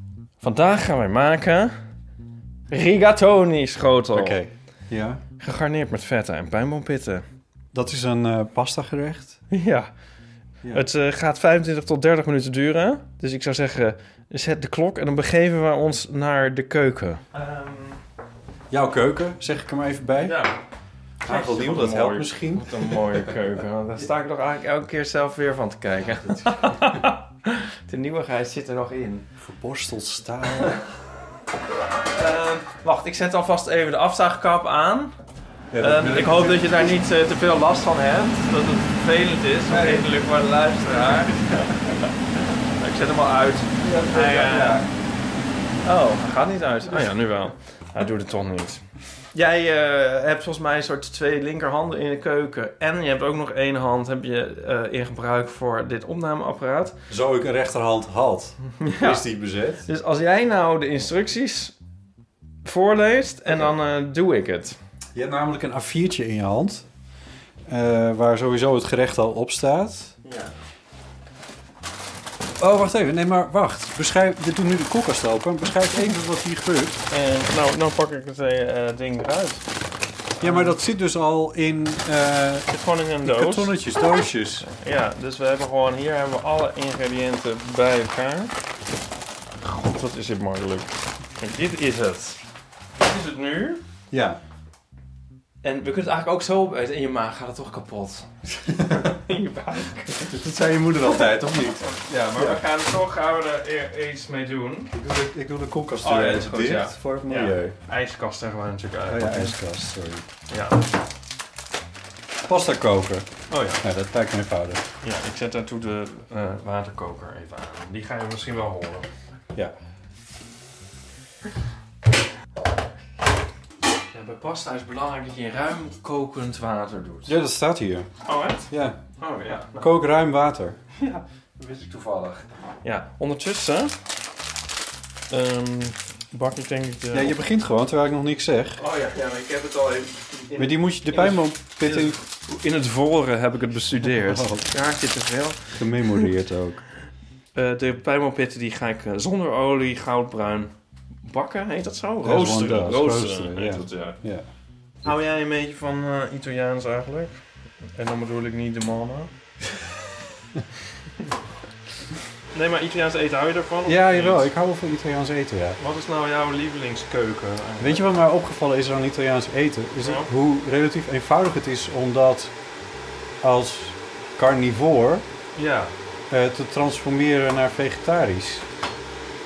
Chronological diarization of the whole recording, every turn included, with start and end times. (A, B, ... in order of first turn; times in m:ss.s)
0:00.4-0:01.8 A
0:02.7-0:04.4 A
0:04.1-0:05.2 B
0:05.4-0:07.2 A
0:07.7-0:09.4 B
0:09.5-0:10.0 A
0:10.7-0:18.0 A
0:18.7-0:20.4 B
0:20.2-0:20.6 A
0:21.2-0:23.3 B
0:21.2-0:29.3 A
0:29.4-0:30.8 B
0:32.1-0:35.1 A
0:35.7-0:37.0 B
0:35.8-0:42.1 A
0:39.7-0:40.1 B
0:42.8-0:44.8 A
0:43.8-0:44.9 B
0:45.8-0:48.8 A
0:49.3-0:57.0 A
0:57.1-0:59.8 B
0:58.8-0:59.2 A
0:59.8-1:01.7 A
1:02.6-1:04.8 A
1:05.1-1:06.8 B
1:07.7-1:10.2 B
1:10.2-1:10.5 A
1:12.6-1:17.0 B
1:17.1-1:19.6 A
1:20.4-1:20.7 A
1:20.4-1:22.7 B
1:22.7-1:23.7 A
1:23.2-1:24.7 B
1:24.6-1:28.5 A
1:29.6-1:32.4 A
1:33.0-1:33.8 A
1:34.1-1:34.4 B
1:35.6-1:38.3 A
1:38.9-1:40.3 A
1:40.2-1:42.6 B
1:41.9-1:44.9 A
1:44.9-1:47.7 B
1:46.0-1:49.6 A
1:49.1-1:50.2 B
1:50.5-1:50.9 A
1:52.4-1:53.3 B
1:53.5-1:53.8 A
1:53.8-1:54.8 B
1:55.0-1:59.1 A
2:04.1-2:07.3 A
2:07.2-2:08.1 B
2:08.2-2:09.9 A
2:08.7-2:09.0 B
2:09.7-2:10.8 B
2:11.0-2:13.9 A
2:15.3-2:17.3 A
2:17.1-2:18.8 B
2:18.8-2:26.3 A
2:20.6-2:22.2 B
2:24.2-2:24.7 B
2:25.7-2:26.8 B
2:27.5-2:30.7 A
2:31.2-2:34.2 A
2:32.2-2:34.5 B
2:35.0-2:37.4 A
2:37.9-2:39.3 A
2:42.5-2:44.5 A
2:43.8-2:45.8 B
2:45.8-2:48.1 A
2:47.8-2:52.5 B
2:50.0-2:50.3 A
2:53.4-2:55.2 B
2:55.6-2:55.9 A
2:56.3-2:58.6 B